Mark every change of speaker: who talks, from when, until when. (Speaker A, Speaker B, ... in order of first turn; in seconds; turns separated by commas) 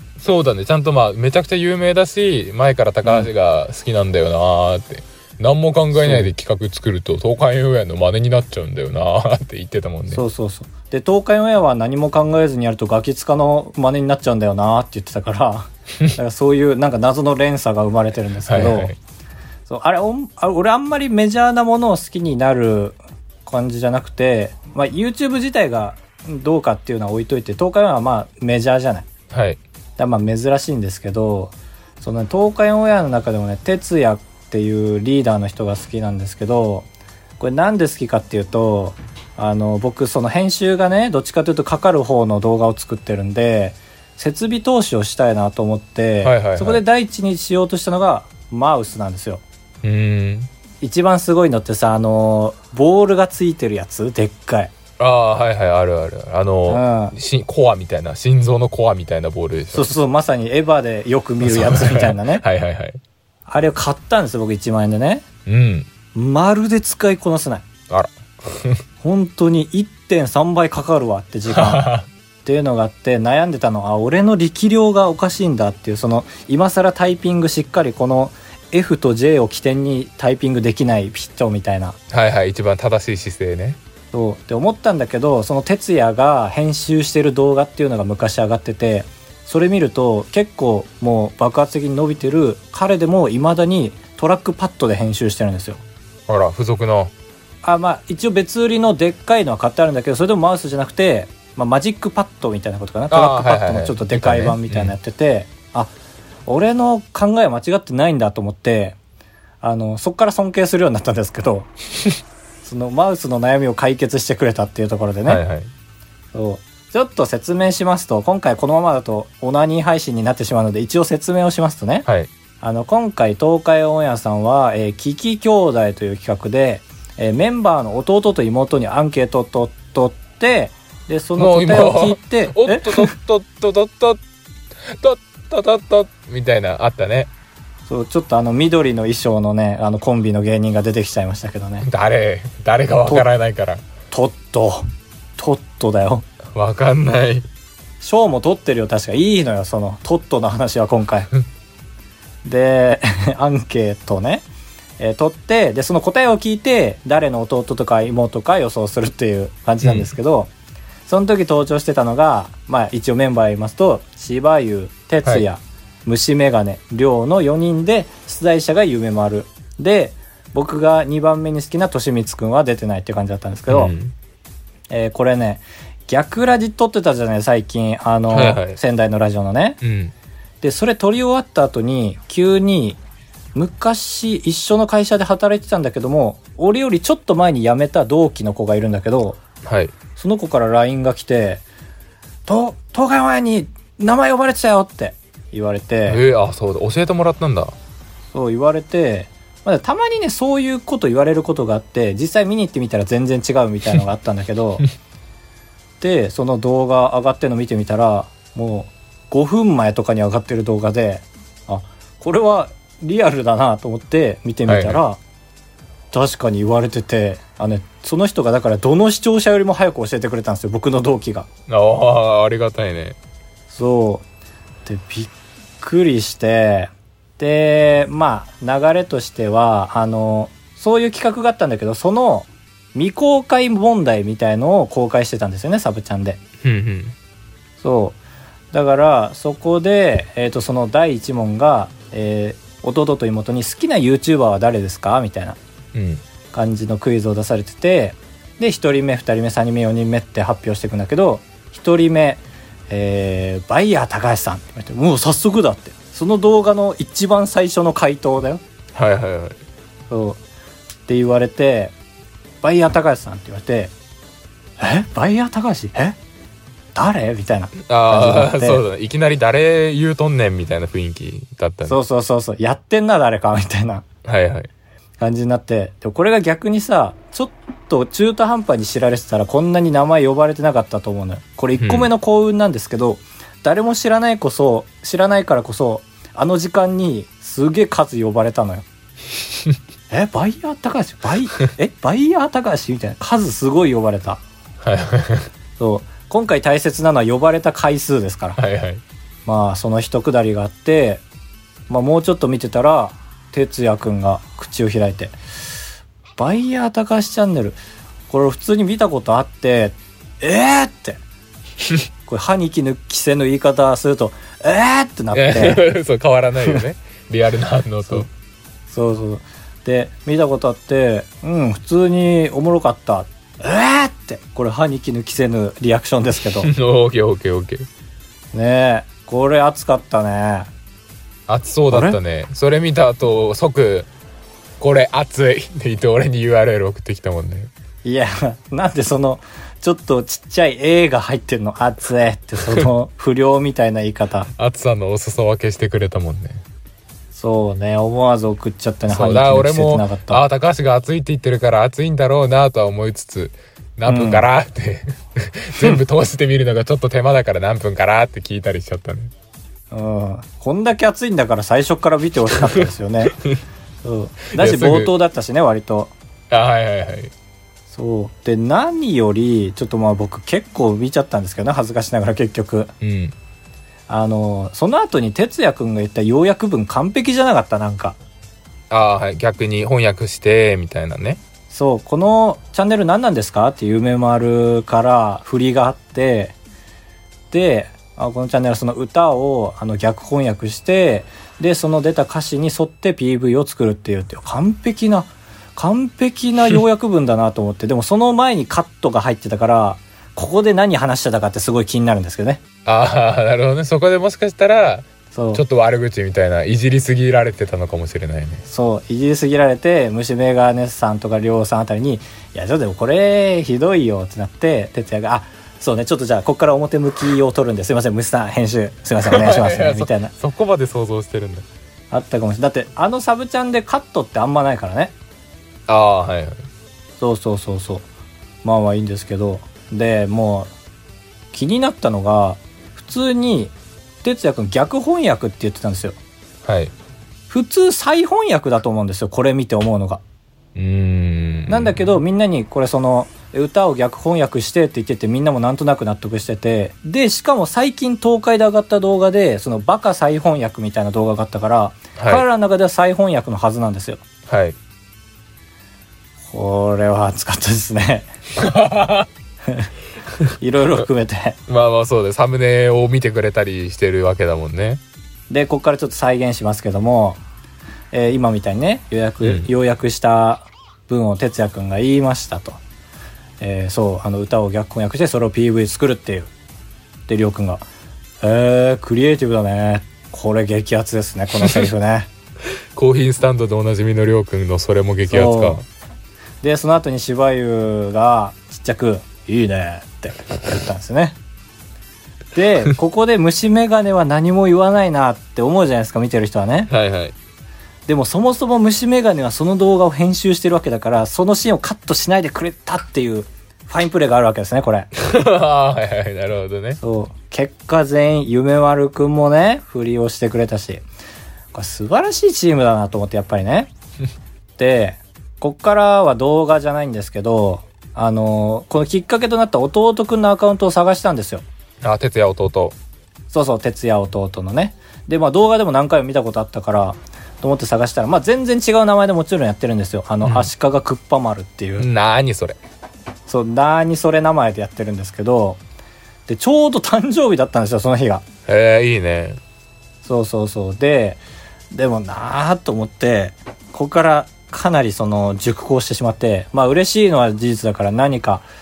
Speaker A: 0.2-10.2, Speaker B: 3.0-3.3, Speaker B: 6.0-6.3, Speaker B: 10.1-18.9, Speaker A: 18.4-19.0, Speaker B: 19.7-29.1, Speaker A: 29.3-29.6, Speaker B: 30.0-36.9, Speaker B: 37.4-49.4, Speaker A: 46.2-46.8, Speaker A: 49.8-50.5, Speaker B: 50.8-54.7, Speaker A: 55.0-59.9, Speaker B: 56.7-57.1, Speaker B: 59.7-62.4, Speaker A: 61.4-63.0, Speaker B: 63.5-65.2, Speaker A: 65.5-65.9, Speaker B: 66.1-67.7, Speaker A: 67.9-68.8, Speaker B: 69.0-71.9, Speaker A: 71.5-72.1, Speaker B: 72.5-82.0, Speaker A: 82.1-83.8, Speaker B: 84.1-95.8, Speaker A: 96.3-97.1, Speaker B: 97.6-105.9, Speaker A: 103.1-105.0, Speaker B: 106.5-109.0, Speaker B: 109.6-111.7, Speaker B: 112.6-115.4, Speaker A: 115.3-115.7, Speaker B: 116.3-122.1, Speaker B: 122.6-133.1, Speaker A: 131.4-134.2, Speaker A: 135.0-137.3, Speaker B: 137.9-141.9, Speaker A: 141.8-143.8, Speaker B: 144.1-144.9, Speaker B: 145.4-146.3, Speaker A: 146.6-147.5, Speaker B: 148.0-151.3, Speaker B: 152.4-154.4, Speaker B: 155.0-160.5, Speaker A: 159.8-160.1, Speaker B: 161.1-173.9, Speaker A: 173.7-174.2, Speaker B: 174.9-179.8, Speaker A: 178.3-178.8, Speaker A: 179.8-180.1, Speaker B: 180.6-183.0, Speaker B: 183.6-189.4, Speaker A: 189.7-189.9, Speaker B: 190.2-191.6, Speaker B: 192.5-196.2, Speaker A: 196.1-197.8, Speaker B: 198.3-204.8, Speaker B: 206.0-215.2, Speaker A: 214.7-215.0, Speaker B: 216.1-221.5, Speaker A: 221.7-223.2, Speaker B: 223.7-224.2, Speaker B: 224.8-236.4, Speaker A: 236.6-237.2, Speaker B: 237.8-238.2, Speaker B: 238.7-245.6, Speaker A: 245.9-246.2, Speaker B: 246.5-258.6, Speaker A: 258.9-259.6, Speaker B: 260.1-260.4, Speaker B: 261.1-261.9, Speaker B: 262.6-263.9, Speaker B: 264.8-266.2, Speaker B: 266.9-268.8, Speaker A: 267.8-272.0, Speaker B: 271.9-274.0, Speaker A: 274.2-274.7, Speaker B: 275.2-288.9, Speaker A: 281.8-282.1, Speaker B: 290.1-294.4, Speaker A: 294.8-295.5, Speaker B: 295.8-298.6, Speaker A: 298.6-299.0, Speaker B: 299.5-301.2, Speaker B: 301.9-305.4, Speaker B: 306.4-307.8, Speaker B: 308.3-311.2, Speaker B: 312.3-315.8, Speaker A: 315.3-318.3, Speaker B: 318.9-326.7, Speaker A: 326.6-327.9, Speaker B: 328.5-330.7, Speaker A: 331.5-334.1, Speaker B: 331.9-332.2, Speaker A: 334.8-337.7, Speaker B: 338.0-344.5, Speaker A: 344.6-346.6, Speaker B: 347.3-350.4, Speaker A: 349.1-359.3, Speaker B: 354.1-354.5, Speaker B: 359.9-363.4, Speaker A: 362.6-363.6, Speaker B: 364.0-366.1, Speaker A: 364.5-365.1, Speaker A: 366.5-367.3, Speaker B: 367.9-372.9, Speaker A: 373.0-373.3, Speaker B: 374.1-378.2, Speaker A: 378.9-381.4, Speaker B: 381.7-386.6, Speaker B: 387.5-402.6, Speaker A: 402.9-408.6, Speaker B: 405.3-405.6, Speaker B: 408.7-420.3, Speaker A: 419.2-421.7, Speaker B: 422.1-425.1, Speaker A: 425.9-426.6, Speaker B: 427.2-428.1, Speaker B: 428.6-430.7, Speaker B: 431.5-436.2, Speaker A: 436.6-436.9, Speaker B: 437.5-440.2, Speaker A: 440.8-442.1, Speaker B: 441.7-454.2, Speaker A: 452.2-452.4, Speaker A: 454.5-454.8, Speaker B: 456.5-458.3, Speaker A: 458.6-459.3, Speaker B: 460.6-461.6, Speaker A: 461.7-465.0, Speaker B: 465.5-467.4, Speaker B: 468.1-472.8, Speaker A: 469.4-469.7, Speaker B: 473.6-476.5, Speaker B: 477.3-477.8, Speaker B: 478.4-482.3, Speaker A: 482.9-485.8, Speaker B: 485.3-485.9, Speaker B: 486.6-491.4, Speaker B: 492.5-496.9, Speaker A: 496.9-497.4, Speaker B: 498.1-505.1, Speaker A: 505.2-507.0, Speaker B: 507.0-511.1, Speaker B: 511.7-513.9, Speaker B: 514.8-521.6, Speaker A: 522.0-523.0, Speaker B: 523.5-532.1, Speaker A: 530.4-530.7, Speaker A: 532.0-532.8, Speaker B: 533.5-535.8, Speaker B: 536.5-538.4, Speaker A: 538.7-539.6, Speaker B: 540.2-548.7